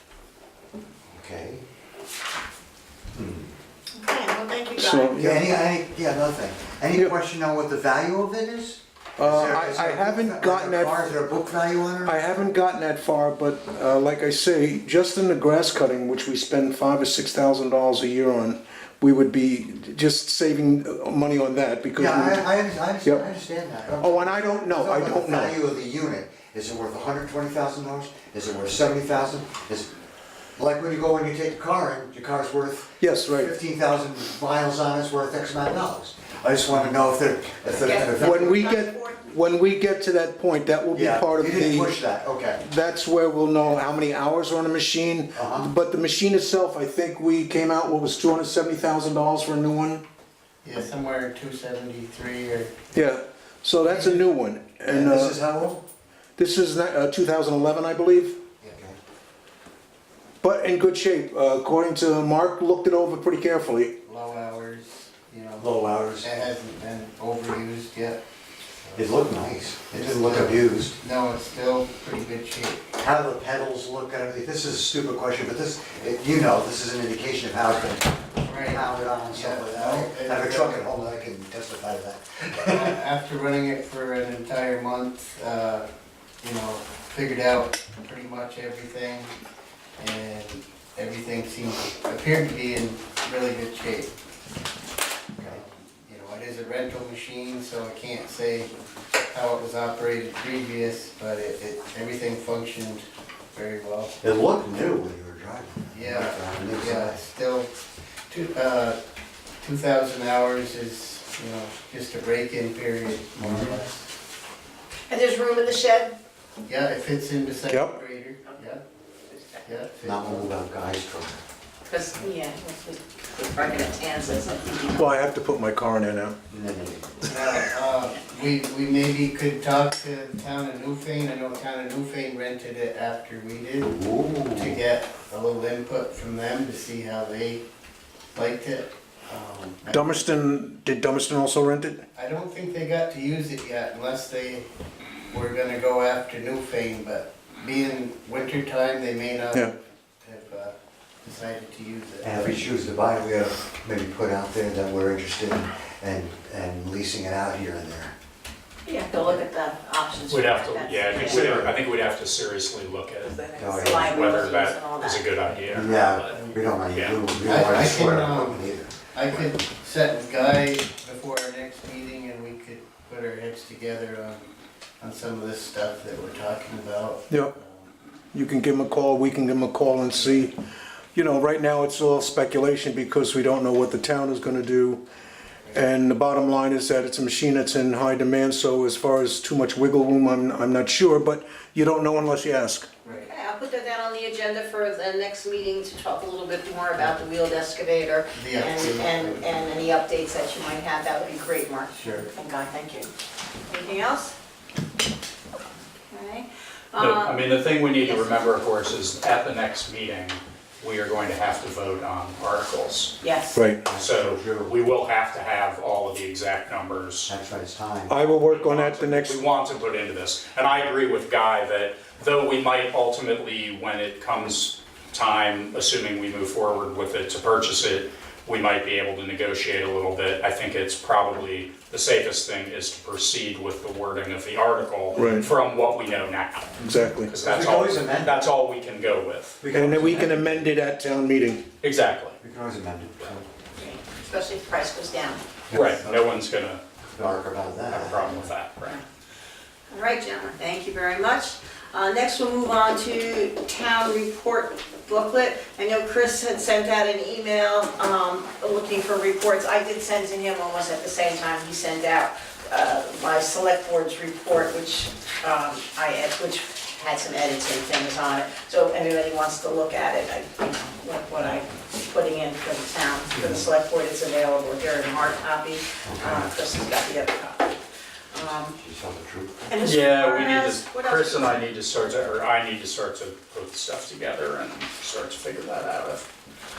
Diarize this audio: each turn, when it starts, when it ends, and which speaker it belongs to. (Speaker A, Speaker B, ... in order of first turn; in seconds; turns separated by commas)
Speaker A: 1.1-1.6, Speaker A: 3.1-3.5, Speaker B: 4.0-5.2, Speaker C: 4.8-5.5, Speaker A: 5.2-12.4, Speaker C: 9.2-11.1, Speaker C: 12.0-22.5, Speaker A: 21.9-29.9, Speaker C: 24.0-25.6, Speaker A: 30.6-38.6, Speaker C: 33.0-33.5, Speaker B: 37.8-39.2, Speaker C: 38.1-42.0, Speaker A: 40.9-42.6, Speaker C: 42.6-50.0, Speaker A: 45.3-45.7, Speaker D: 50.6-52.8, Speaker C: 52.9-55.4, Speaker D: 53.9-54.3, Speaker A: 54.9-55.8, Speaker C: 56.4-58.4, Speaker C: 60.4-64.0, Speaker D: 64.0-65.7, Speaker A: 65.6-66.3, Speaker D: 66.2-68.2, Speaker D: 68.8-69.1, Speaker A: 69.0-71.0, Speaker D: 69.9-72.9, Speaker A: 73.0-82.9, Speaker D: 78.4-80.8, Speaker D: 82.7-85.9, Speaker D: 86.4-89.3, Speaker D: 90.0-94.1, Speaker D: 95.5-98.7, Speaker D: 99.3-104.1, Speaker A: 104.2-107.2, Speaker D: 105.9-107.7, Speaker D: 108.3-109.0, Speaker D: 109.6-114.1, Speaker A: 113.4-113.8, Speaker B: 115.1-116.1, Speaker D: 116.6-118.8, Speaker C: 117.7-118.0, Speaker B: 119.3-119.8, Speaker D: 119.6-120.5, Speaker A: 120.0-121.4, Speaker B: 121.8-125.2, Speaker C: 124.9-126.4, Speaker A: 126.5-127.2, Speaker D: 127.2-134.0, Speaker A: 133.8-134.8, Speaker D: 134.6-137.6, Speaker D: 138.3-140.4, Speaker C: 139.9-142.1, Speaker D: 142.1-144.7, Speaker D: 145.3-152.6, Speaker A: 152.2-158.1, Speaker B: 158.8-161.6, Speaker E: 160.3-167.2, Speaker C: 161.2-161.6, Speaker B: 163.2-165.2, Speaker A: 163.6-164.2, Speaker A: 165.7-168.9, Speaker D: 166.3-166.6, Speaker D: 167.4-174.4, Speaker D: 175.0-177.9, Speaker C: 178.3-180.5, Speaker C: 181.1-185.0, Speaker C: 185.7-192.9, Speaker D: 193.0-193.3, Speaker B: 193.2-203.1, Speaker D: 198.3-199.5, Speaker D: 201.9-202.3, Speaker B: 203.7-204.3, Speaker B: 206.1-207.4, Speaker E: 207.0-213.2, Speaker B: 207.9-208.3, Speaker B: 213.2-213.7, Speaker C: 213.5-213.8, Speaker A: 213.8-214.8, Speaker E: 213.9-217.3, Speaker A: 217.3-218.2, Speaker C: 218.1-219.4, Speaker E: 218.4-239.6, Speaker C: 235.1-235.5, Speaker C: 236.8-237.3, Speaker A: 237.4-238.5, Speaker A: 239.6-240.7, Speaker C: 239.7-241.6, Speaker E: 241.8-242.4, Speaker A: 242.4-243.5, Speaker B: 243.8-245.4, Speaker A: 245.7-246.2, Speaker E: 245.7-246.8, Speaker A: 247.1-248.4, Speaker E: 247.9-249.0, Speaker B: 249.9-277.8, Speaker A: 273.3-273.6, Speaker A: 276.1-276.5, Speaker B: 278.3-278.8, Speaker A: 278.7-279.6, Speaker B: 279.7-282.2, Speaker E: 279.8-286.3